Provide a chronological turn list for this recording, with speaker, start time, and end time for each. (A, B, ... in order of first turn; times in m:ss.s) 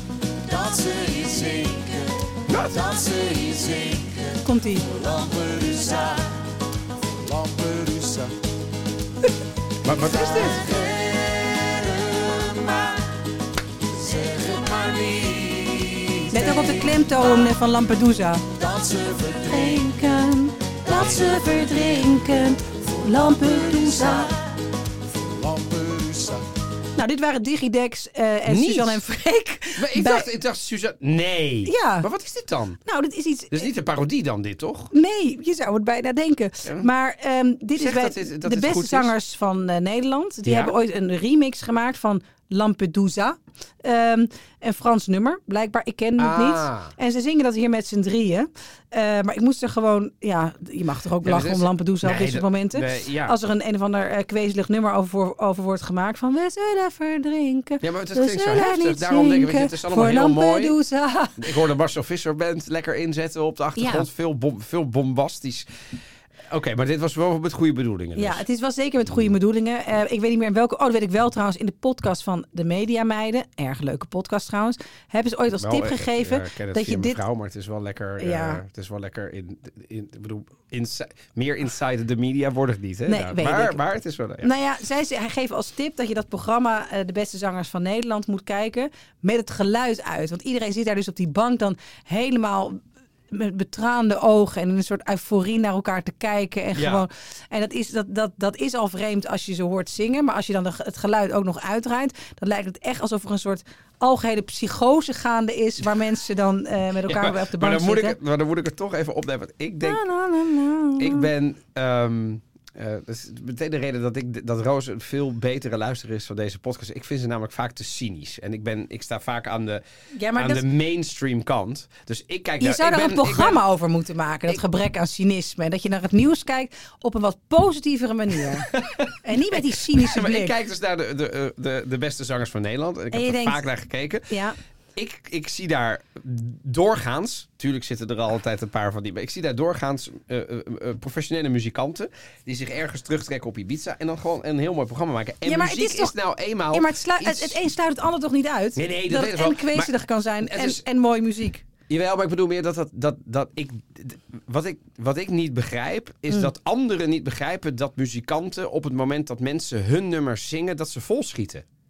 0:00.4-0:06.4 A
0:02.5-0:02.8 B
0:04.4-0:04.8 C
0:07.2-0:08.3 A
0:09.8-0:10.6 B
0:10.0-0:13.1 A
0:13.9-0:17.5 A
0:16.3-0:18.4 C
0:18.5-0:19.9 A
0:19.5-0:24.3 C
0:20.9-0:21.4 B
0:22.7-0:24.4 A
0:25.3-0:26.4 A
0:27.0-0:30.3 C
0:28.5-0:29.0 B
0:29.8-0:32.8 B
0:31.6-0:32.1 C
0:32.8-0:33.7 C
0:33.5-0:34.9 B
0:34.9-1:01.5 C
0:37.8-0:39.1 B
0:40.4-0:40.7 B
0:46.2-0:46.9 B
0:51.2-0:53.3 B
0:57.8-1:00.7 B
1:01.4-1:05.7 B
1:03.8-1:04.1 C
1:06.5-1:08.4 B
1:08.2-1:17.2 C
1:15.6-1:24.5 B
1:18.2-1:18.6 C
1:23.1-1:23.8 C
1:24.4-1:32.8 C
1:33.3-1:48.2 C
1:36.7-1:37.0 B
1:47.1-1:50.0 B
1:49.8-1:51.3 C
1:51.0-1:59.8 B
2:00.1-2:00.6 C
2:00.3-2:03.6 B
2:02.6-2:08.7 C
2:08.7-2:14.3 B
2:09.2-2:10.5 C
2:13.1-2:13.6 C
2:14.3-2:14.6 C
2:15.0-2:27.6 B
2:25.4-2:26.1 C
2:26.7-2:31.6 C
2:28.8-2:30.8 B
2:31.9-2:41.6 B